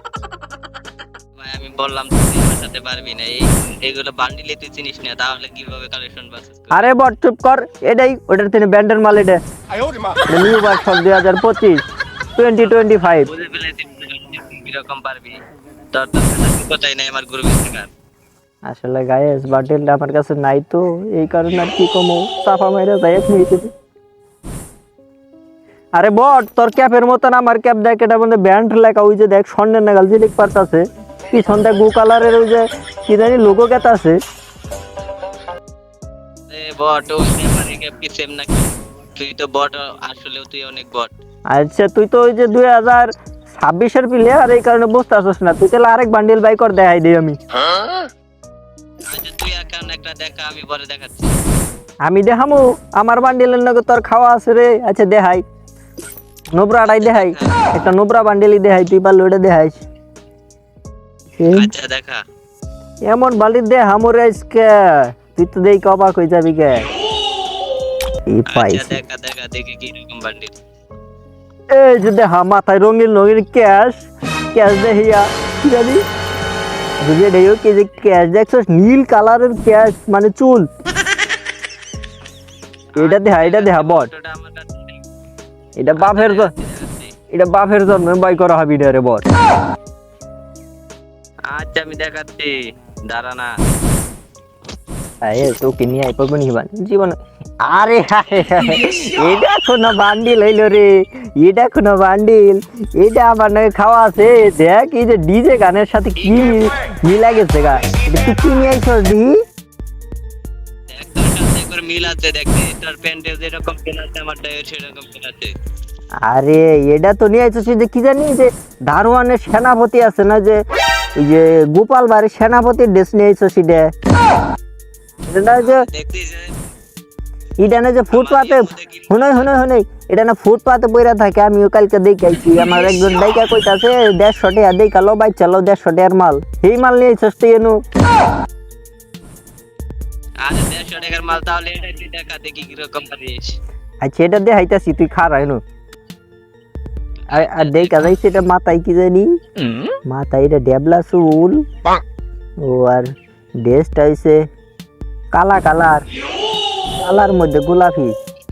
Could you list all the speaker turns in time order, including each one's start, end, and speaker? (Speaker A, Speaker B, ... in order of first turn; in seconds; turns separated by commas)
Speaker A: 1.4-6.9, Speaker B: 6.7-9.4, Speaker B: 10.3-11.8, Speaker B: 12.3-13.3, Speaker A: 12.6-17.9, Speaker B: 18.7-23.7, Speaker B: 26.0-34.2, Speaker A: 36.5-41.1, Speaker B: 41.5-47.4, Speaker A: 49.1-51.3, Speaker B: 52.0-55.4, Speaker B: 56.5-59.8, Speaker A: 56.8-57.7, Speaker B: 61.4-61.7, Speaker A: 61.5-62.2, Speaker B: 63.1-66.8, Speaker B: 68.3-69.0, Speaker A: 68.5-70.6, Speaker B: 71.7-76.0, Speaker B: 77.0-80.7, Speaker A: 82.9-85.0, Speaker B: 83.0-84.1, Speaker B: 85.8-86.5, Speaker A: 86.0-87.1, Speaker B: 87.3-89.2, Speaker A: 91.5-93.5, Speaker B: 95.2-109.3, Speaker A: 110.9-115.5, Speaker B: 116.2-120.6, Speaker B: 121.2-123.9, Speaker B: 125.3-125.8, Speaker A: 125.6-126.5, Speaker B: 127.6-137.8, Speaker A: 128.1-129.5, Speaker A: 140.4-143.6, Speaker B: 144.0-145.6, Speaker A: 147.2-148.1, Speaker B: 147.3-149.3, Speaker B: 150.1-151.6, Speaker B: 152.6-153.1, Speaker B: 153.6-154.4, Speaker B: 155.3-156.0, Speaker B: 157.0-158.1